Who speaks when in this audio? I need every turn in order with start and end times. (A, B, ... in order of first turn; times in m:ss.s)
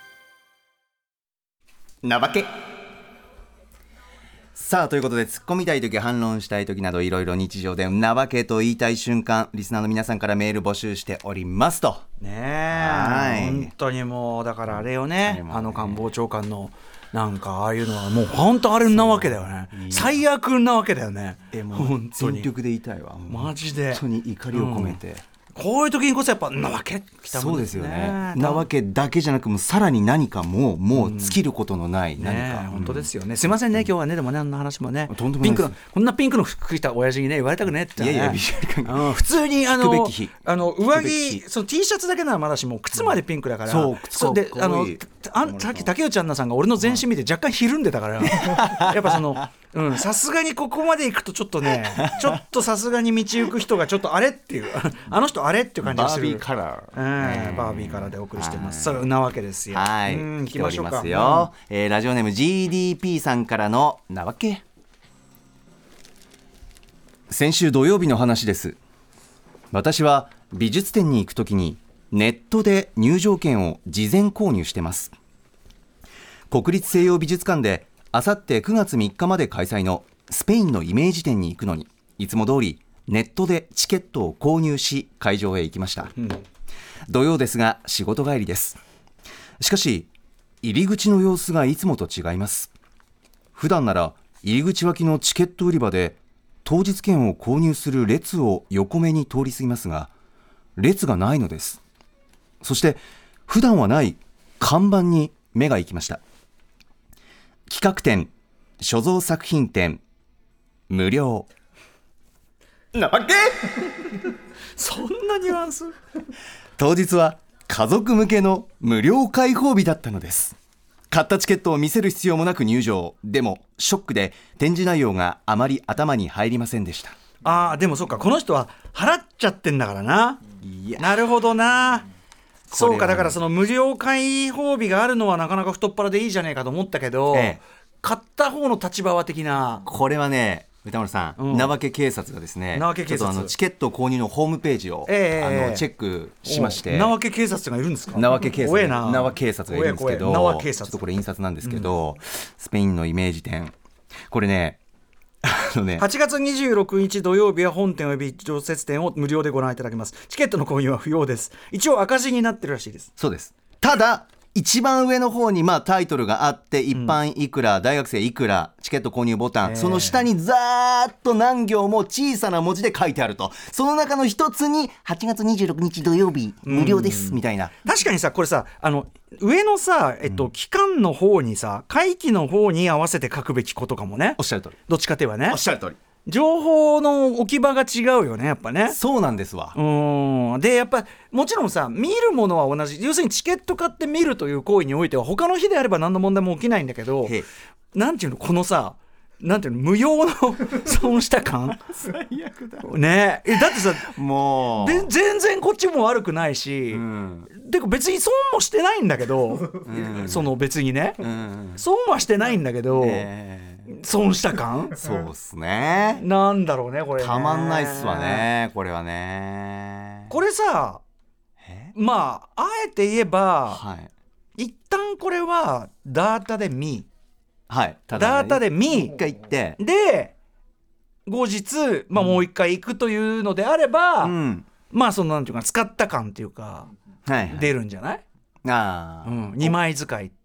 0:02.0-0:02.5 A
0:04.5-0:12.0 A
0:12.2-0:22.5 B
0:12.7-0:13.7 A
0:14.8-0:16.0 A
0:18.9-0:20.2 A
0:21.5-0:25.2 A
0:23.3-0:25.0 B
0:25.5-0:28.7 B
0:27.3-0:33.9 A
0:30.9-0:31.4 B
0:32.2-0:56.4 B
0:35.1-0:35.7 A
0:38.0-0:39.1 A
0:39.7-0:41.4 A
0:43.0-0:45.9 A
0:48.3-0:49.4 A
0:51.7-0:52.4 A
0:55.8-0:59.1 A
0:56.9-1:01.5 B
0:59.7-1:04.6 A
1:07.3-1:08.8 A
1:09.7-1:15.1 A
1:16.5-1:26.1 A
1:27.1-1:28.8 A
1:29.6-1:30.1 A
1:30.6-1:32.7 A
1:33.6-1:40.1 A
1:40.8-1:41.8 A
1:42.6-1:46.2 A
1:47.7-1:50.0 A
1:50.9-1:51.5 A
1:52.9-1:54.2 A
1:54.8-1:56.0 B
1:56.8-2:00.6 A
2:01.1-2:07.2 A
2:07.4-2:10.4 B
2:10.6-2:11.3 A
2:11.0-2:12.1 B
2:12.7-2:13.4 A
2:12.7-2:19.8 B
2:17.3-2:17.6 A
2:19.9-2:27.1 A
2:21.4-2:21.7 B
2:22.7-2:23.5 B
2:25.1-2:25.9 B
2:26.4-2:31.0 B
2:28.1-2:33.8 A
2:31.6-2:31.9 B
2:34.3-2:34.8 A
2:35.4-2:36.1 A
2:36.0-2:43.1 B
2:43.2-2:57.7 A
2:49.6-2:50.2 B
2:56.7-3:05.6 B
3:00.3-3:00.5 A
3:04.4-3:04.8 A
3:05.5-3:06.0 A
3:06.2-3:09.0 B
3:08.9-3:09.8 A
3:09.8-3:17.4 B
3:17.9-3:21.8 B
3:21.9-3:22.9 A
3:22.8-3:24.1 B
3:23.5-3:25.1 A
3:24.8-3:31.2 B
3:26.9-3:27.5 A
3:29.8-3:30.5 A
3:31.2-3:31.8 A
3:31.8-3:33.3 B
3:33.0-3:33.9 A
3:33.9-3:35.0 B
3:35.0-3:36.2 A
3:36.2-3:38.5 B
3:37.2-3:40.3 A
3:40.3-3:41.0 B
3:41.6-3:41.9 A
3:42.0-3:43.8 B
3:43.7-3:44.1 A
3:44.6-3:47.1 B
3:47.7-3:49.8 A
3:48.2-3:49.2 B
3:49.8-3:50.3 B
3:51.3-3:54.4 B
3:52.2-3:52.4 A
3:54.2-3:54.7 A
3:54.9-3:56.9 B
3:57.3-3:57.7 A
3:57.5-3:58.2 B
3:58.6-3:59.8 A
3:59.2-4:00.3 B